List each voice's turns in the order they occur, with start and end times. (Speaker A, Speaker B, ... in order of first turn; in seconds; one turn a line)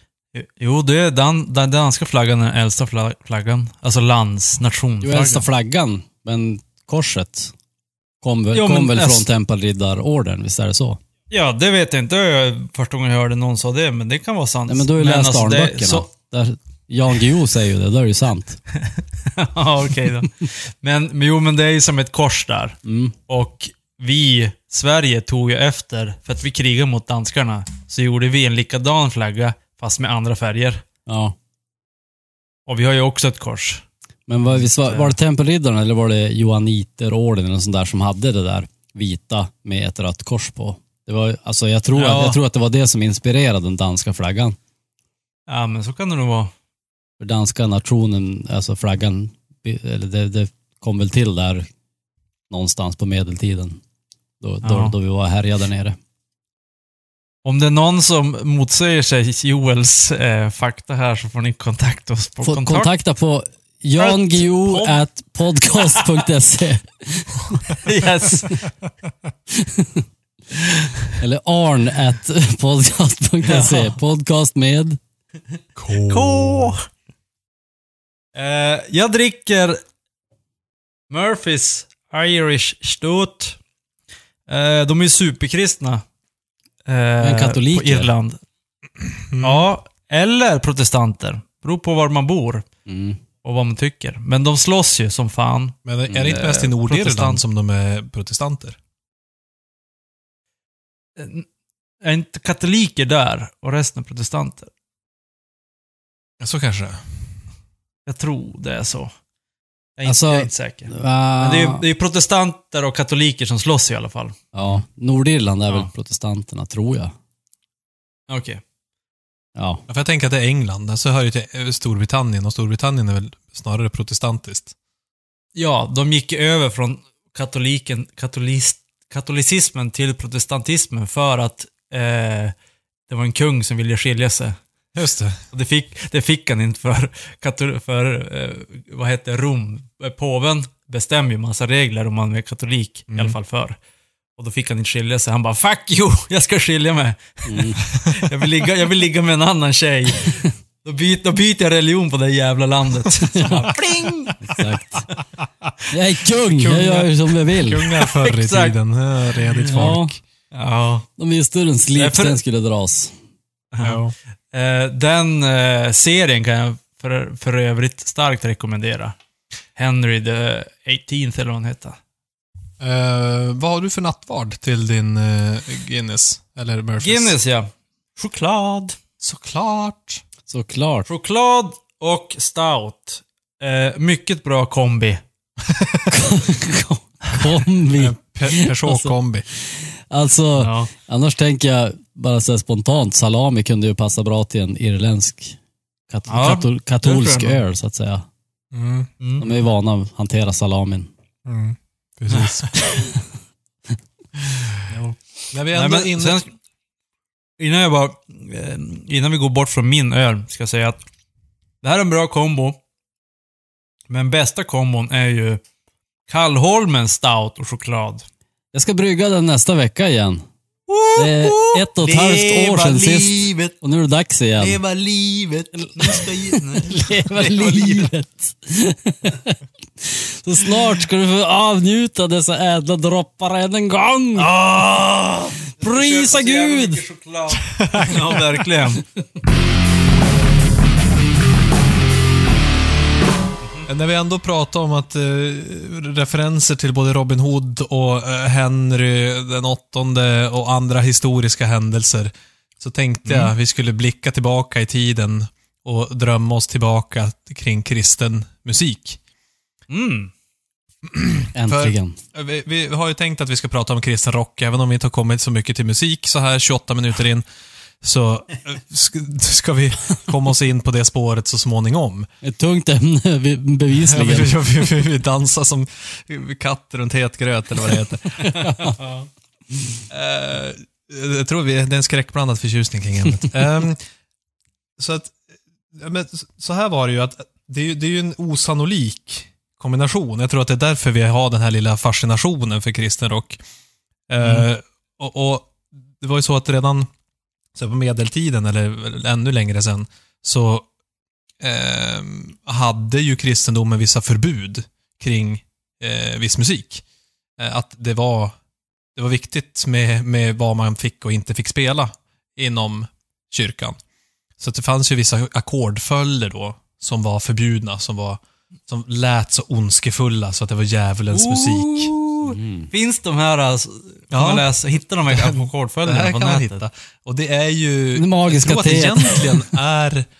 Speaker A: 0.3-5.4
Speaker B: 5.0-7.5
Speaker B: 8.2-11.0
Speaker A: 8.5-9.3
Speaker A: 11.3-16.1
Speaker B: 14.7-18.6
Speaker A: 18.8-30.8
Speaker B: 22.8-23.1
Speaker B: 31.1-31.4
Speaker A: 32.7-33.8
Speaker B: 34.3-44.6
Speaker A: 34.6-35.1
Speaker A: 41.9-42.4
Speaker A: 45.5-46.5
Speaker B: 47.2-51.7
Speaker B: 52.5-53.8
Speaker B: 54.4-56.0
Speaker A: 54.6-54.9
Speaker A: 57.4-62.9
Speaker B: 62.4-67.6
Speaker A: 64.0-65.0
Speaker A: 67.8-68.6
Speaker B: 68.3-68.6
Speaker B: 69.5-70.1
Speaker B: 71.2-75.0
Speaker A: 73.5-73.9
Speaker C: 75.8-76.7
Speaker A: 76.0-76.8
Speaker A: 78.3-79.8
Speaker A: 81.1-83.6
Speaker A: 84.5-86.0
Speaker A: 86.8-88.4
Speaker B: 87.2-88.1
Speaker C: 89.3-89.7
Speaker A: 89.4-92.6
Speaker B: 92.8-93.2
Speaker A: 93.4-97.4
Speaker C: 95.8-98.8
Speaker B: 96.1-96.4
Speaker A: 101.2-101.5
Speaker A: 102.0-104.7
Speaker C: 106.4-107.2
Speaker A: 108.0-109.1
Speaker A: 110.0-114.3
Speaker B: 110.0-111.8
Speaker B: 114.5-117.1
Speaker A: 118.3-118.6
Speaker B: 119.5-119.8
Speaker C: 119.9-124.7
Speaker A: 125.5-132.5
Speaker A: 133.1-134.6
Speaker C: 134.9-135.4
Speaker A: 135.5-143.8
Speaker C: 143.1-143.3
Speaker A: 144.4-154.4
Speaker B: 147.4-147.8
Speaker B: 153.3-153.7
Speaker B: 154.4-155.1
Speaker B: 155.9-157.9
Speaker C: 156.5-160.2
Speaker A: 158.2-158.7
Speaker A: 159.6-159.9
Speaker B: 159.7-160.1
Speaker A: 160.5-161.1
Speaker B: 161.2-163.1
Speaker A: 161.9-162.4
Speaker C: 163.8-164.1
Speaker A: 164.5-169.2
Speaker A: 169.8-172.0
Speaker C: 172.8-177.4
Speaker A: 177.0-178.9
Speaker C: 179.2-180.2
Speaker B: 180.5-181.1
Speaker A: 181.1-185.2
Speaker C: 185.7-186.1
Speaker B: 186.1-195.6
Speaker C: 187.9-189.5
Speaker A: 190.6-190.9
Speaker B: 196.1-198.2
Speaker A: 196.3-197.6
Speaker C: 198.7-199.1
Speaker A: 199.2-199.5
Speaker B: 199.4-201.1
Speaker C: 201.4-202.9
Speaker A: 202.3-202.7
Speaker C: 204.9-206.4
Speaker A: 205.7-206.5
Speaker A: 207.6-211.0
Speaker A: 211.8-212.8
Speaker A: 214.1-215.6
Speaker A: 216.3-218.2
Speaker B: 218.7-220.4
Speaker A: 220.9-223.7
Speaker B: 221.2-224.8
Speaker A: 224.6-228.1
Speaker B: 225.8-234.6
Speaker A: 234.4-239.0
Speaker B: 235.8-237.0
Speaker C: 237.7-238.4
Speaker A: 243.6-243.9
Speaker C: 243.9-259.2
Speaker A: 253.2-253.5
Speaker A: 259.9-260.3
Speaker C: 261.0-267.4
Speaker B: 261.5-262.2
Speaker C: 268.0-272.3
Speaker B: 272.4-274.6
Speaker C: 274.1-278.7
Speaker A: 278.5-279.3
Speaker B: 278.6-279.0
Speaker C: 280.1-284.0
Speaker C: 285.0-285.4
Speaker C: 285.9-293.6
Speaker C: 294.3-297.1
Speaker A: 294.4-294.7
Speaker C: 297.8-300.9
Speaker C: 301.6-307.0
Speaker C: 307.6-308.5
Speaker C: 309.1-314.0
Speaker C: 314.6-322.1
Speaker A: 321.3-326.8
Speaker B: 322.5-322.9
Speaker C: 324.3-324.7
Speaker C: 325.3-330.2
Speaker B: 328.1-329.7